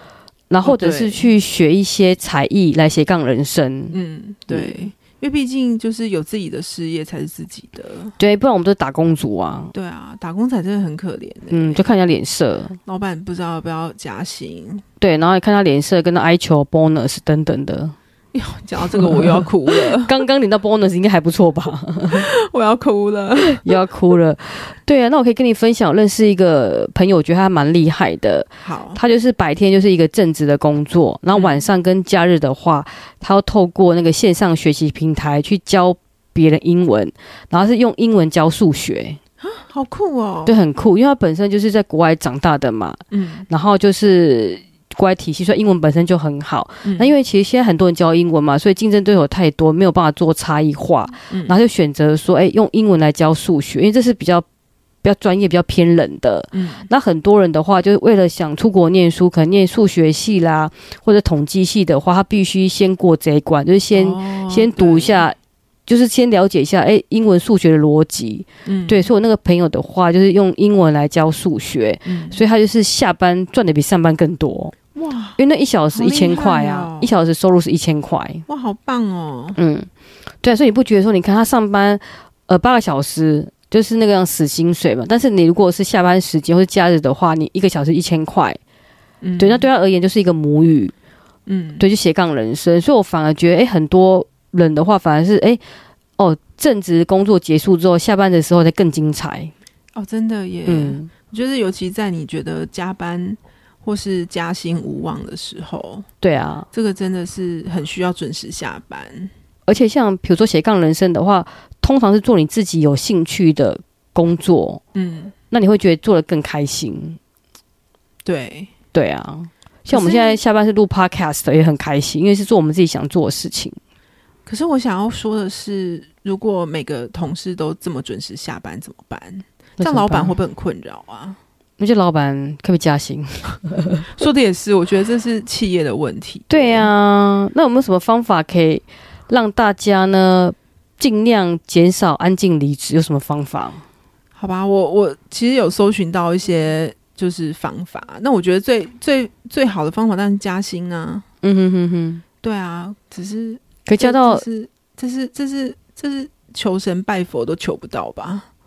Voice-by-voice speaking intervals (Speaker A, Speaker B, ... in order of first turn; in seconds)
Speaker A: 0.5-4.0, 4.5-4.9, 8.2-9.7, 11.5-12.8, 15.0-17.9, 18.9-22.3, 23.4-39.2, 40.5-54.5, 55.0-65.4, 65.9-74.8, 75.4-78.4, 79.6-79.9, 80.4-88.6, 89.4-90.9, 91.8-95.6, 96.2-99.5, 100.7-101.1, 106.2-106.7, 109.7-114.8, 115.5-117.2, 118.9-123.8, 129.8-130.4, 131.8-134.0, 136.5-143.8, 151.4-152.2, 153.9-154.4
Speaker B: 0.6-1.3, 3.9-8.2, 9.7-11.9, 12.9-14.8, 18.3-20.1, 22.1-23.7, 28.6-29.0, 31.3-31.6, 39.4-40.6, 43.1-43.5, 46.8-47.1, 51.3-51.6, 56.5-56.9, 63.9-65.3, 68.7-69.1, 72.1-72.4, 75.0-75.4, 75.9-77.1, 78.5-79.6, 89.2-89.7, 91.5-91.9, 100.0-106.1, 106.7-109.3, 114.9-115.3, 118.3-118.7, 119.9-120.4, 124.5-131.4, 134.1-136.9, 144.4-151.2, 152.4-158.5